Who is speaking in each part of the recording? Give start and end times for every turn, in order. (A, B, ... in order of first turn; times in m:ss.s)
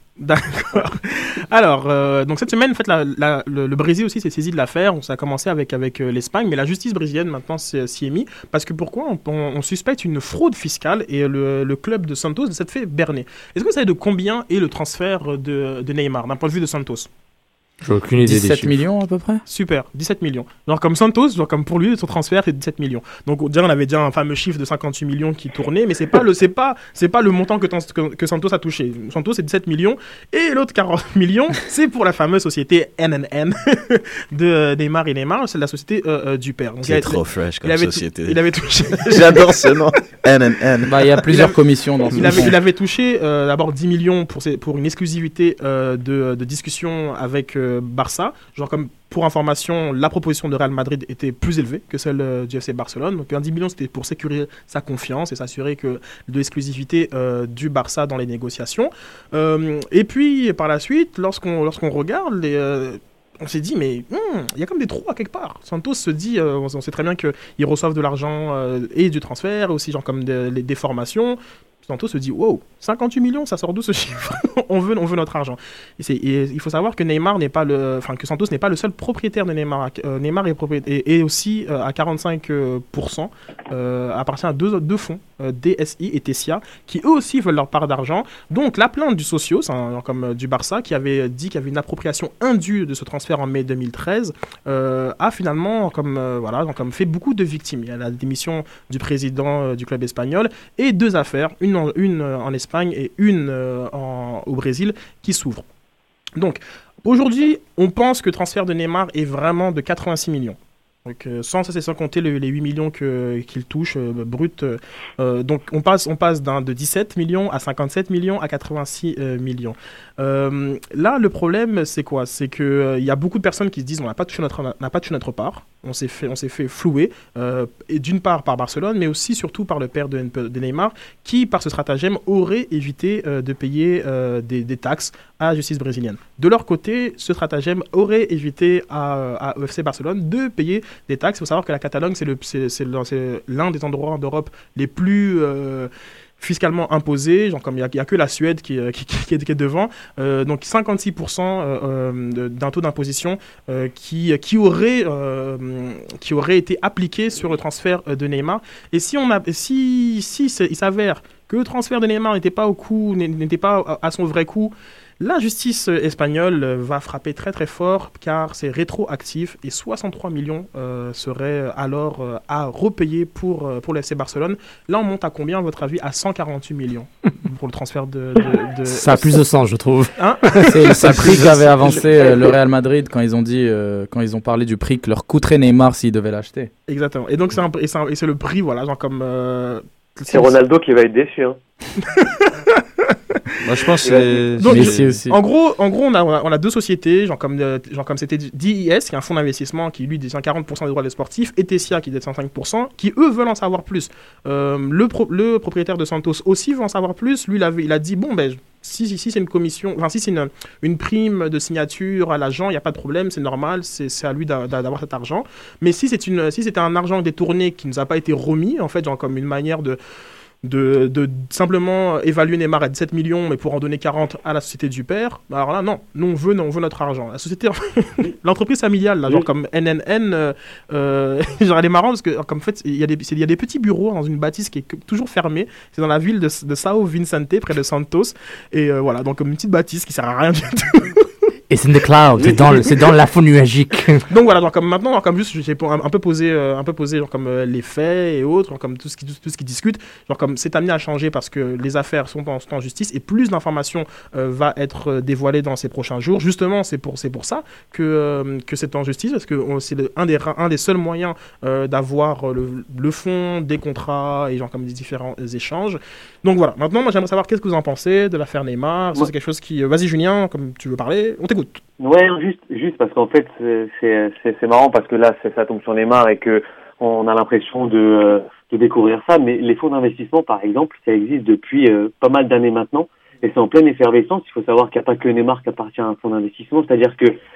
0:00.2-0:17.1 A
0:17.8-0:18.8 B
0:18.2-0:19.4 C
0:19.5-0:39.8 A
0:36.8-0:38.4 D
0:39.0-0:41.0 D
0:40.9-0:42.5 C
0:41.2-1:45.6 A
0:42.1-0:42.5 D
1:46.4-2:59.4 A
2:58.9-3:01.6 B
3:00.2-3:02.2 A
3:00.7-3:06.7 C
3:06.9-3:10.5 A
3:10.3-3:11.6 E
3:12.0-3:13.2 A
3:13.6-3:15.2 D
3:14.0-3:14.4 E
3:14.6-3:40.0 A
3:14.6-3:15.4 C
3:40.6-4:01.3 A
4:01.7-4:04.2 B
4:02.4-4:02.8 E
4:04.3-4:31.8 A
4:32.0-4:47.4 E